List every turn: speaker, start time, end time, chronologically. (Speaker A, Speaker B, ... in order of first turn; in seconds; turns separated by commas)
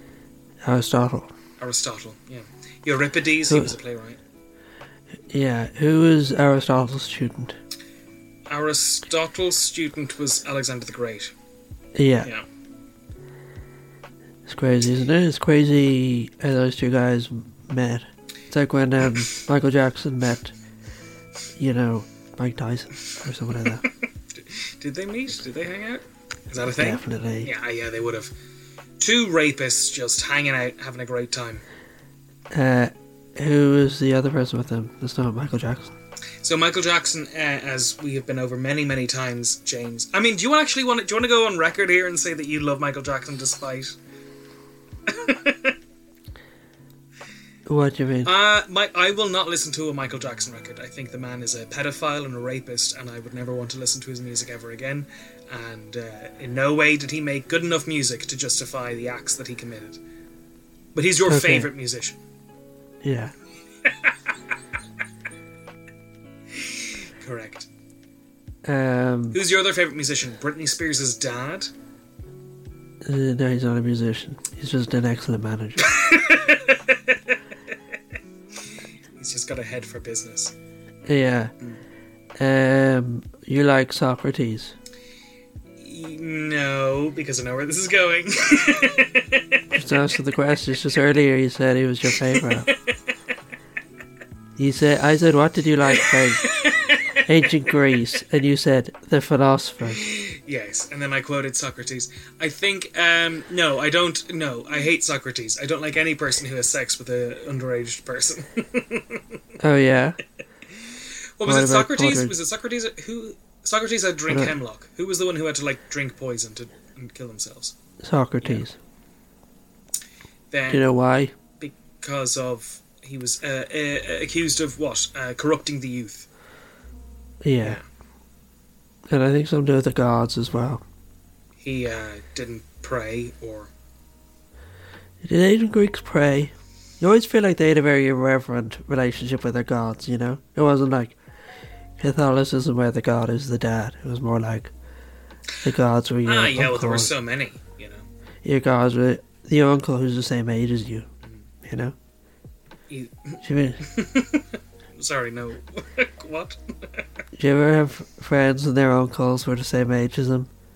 Speaker A: 0.6-1.3, Speaker B: 1.6-4.2, Speaker A: 3.5-3.7, Speaker A: 5.3-7.6, Speaker B: 8.5-11.3, Speaker A: 11.9-12.3, Speaker A: 14.5-20.5, Speaker A: 21.6-23.8, Speaker B: 24.3-28.3, Speaker A: 26.7-27.5, Speaker B: 29.0-31.6, Speaker A: 32.5-35.9, Speaker B: 36.4-44.0, Speaker B: 45.1-45.8, Speaker A: 47.7-48.3, Speaker B: 48.2-60.0, Speaker B: 61.0-62.2, Speaker A: 61.3-61.7, Speaker A: 63.0-63.3, Speaker B: 66.5-67.7, Speaker A: 68.6-69.4, Speaker B: 69.3-71.7, Speaker A: 73.0-75.9, Speaker B: 75.8-77.4, Speaker B: 79.2-80.5, Speaker A: 81.1-81.5, Speaker A: 82.4-84.8, Speaker B: 85.8-89.4, Speaker A: 89.7-92.7, Speaker A: 94.6-96.5, Speaker B: 96.4-97.2, Speaker A: 97.2-100.0, Speaker B: 99.9-109.4, Speaker A: 109.6-110.2, Speaker B: 110.9-117.8, Speaker A: 111.4-112.4, Speaker A: 114.3-114.5, Speaker A: 118.0-118.8, Speaker B: 120.5-120.8, Speaker A: 120.7-121.3, Speaker B: 121.6-126.3, Speaker A: 127.4-127.8, Speaker A: 129.1-130.8, Speaker B: 131.6-133.7, Speaker A: 135.2-141.2, Speaker A: 142.0-144.7, Speaker A: 145.6-147.1, Speaker B: 146.2-148.1, Speaker A: 148.4-151.1, Speaker A: 151.6-152.0, Speaker B: 152.9-157.1, Speaker A: 153.4-153.8, Speaker A: 157.3-160.5